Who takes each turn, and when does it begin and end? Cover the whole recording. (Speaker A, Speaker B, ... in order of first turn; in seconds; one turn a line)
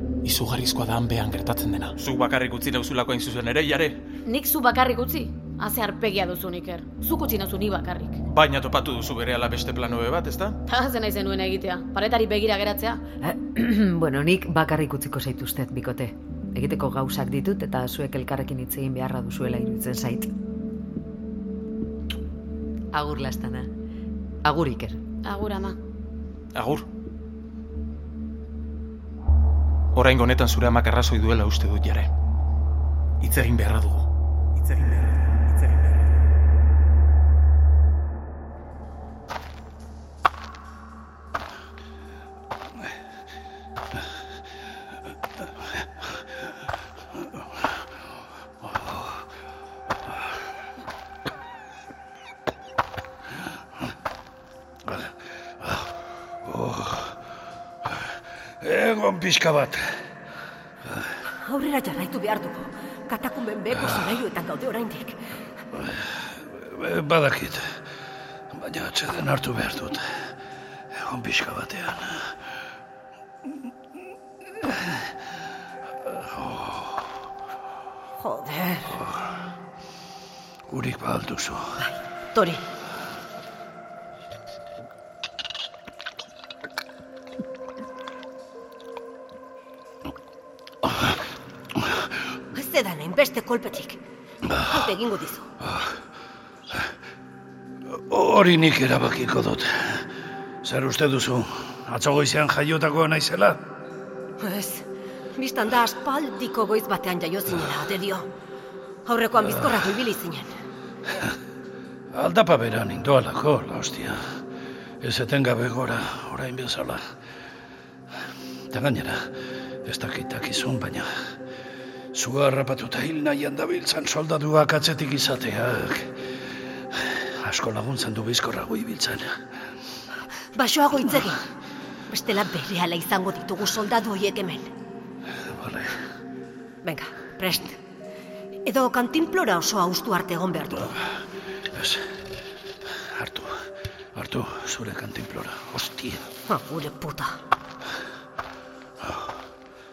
Speaker A: 0.2-4.0
Speaker B: 4.3-8.2
Speaker A: 8.3-10.6
Speaker B: 10.7-13.0
Speaker C: 13.2-20.3
Speaker C: 22.9-23.7
Speaker C: 24.4-25.0
Speaker B: 25.2-25.8
Speaker A: 26.6-26.9
Speaker A: 29.9-32.1
Speaker A: 33.2-36.2
Speaker D: 48.6-49.2
Speaker D: 54.9-55.9
Speaker D: 56.4-57.2
Speaker D: 58.6-60.0
Speaker E: 61.5-65.2
Speaker D: 65.8-67.8
Speaker D: 68.5-70.3
Speaker D: 70.9-72.4
Speaker D: 74.6-75.1
Speaker D: 76.1-77.1
Speaker E: 78.2-79.0
Speaker D: 79.0-79.2
Speaker D: 80.7-81.8
Speaker E: 81.8-82.6
Speaker E: 92.5-94.0
Speaker D: 94.5-94.8
Speaker E: 94.7-95.5
Speaker D: 95.6-95.9
Speaker D: 97.9-100.1
Speaker D: 100.6-103.6
Speaker E: 104.4-104.8
Speaker E: 105.4-108.3
Speaker E: 109.1-110.5
Speaker D: 112.1-114.4
Speaker D: 115.0-117.1
Speaker D: 118.7-121.1
Speaker D: 122.1-126.3
Speaker D: 126.9-129.4
Speaker E: 130.6-131.4
Speaker E: 132.1-134.7
Speaker D: 135.4-136.0
Speaker E: 136.8-137.8
Speaker E: 138.7-141.0
Speaker D: 141.7-142.1
Speaker D: 143.0-146.3
Speaker E: 146.5-147.4
Speaker D: 149.0-149.3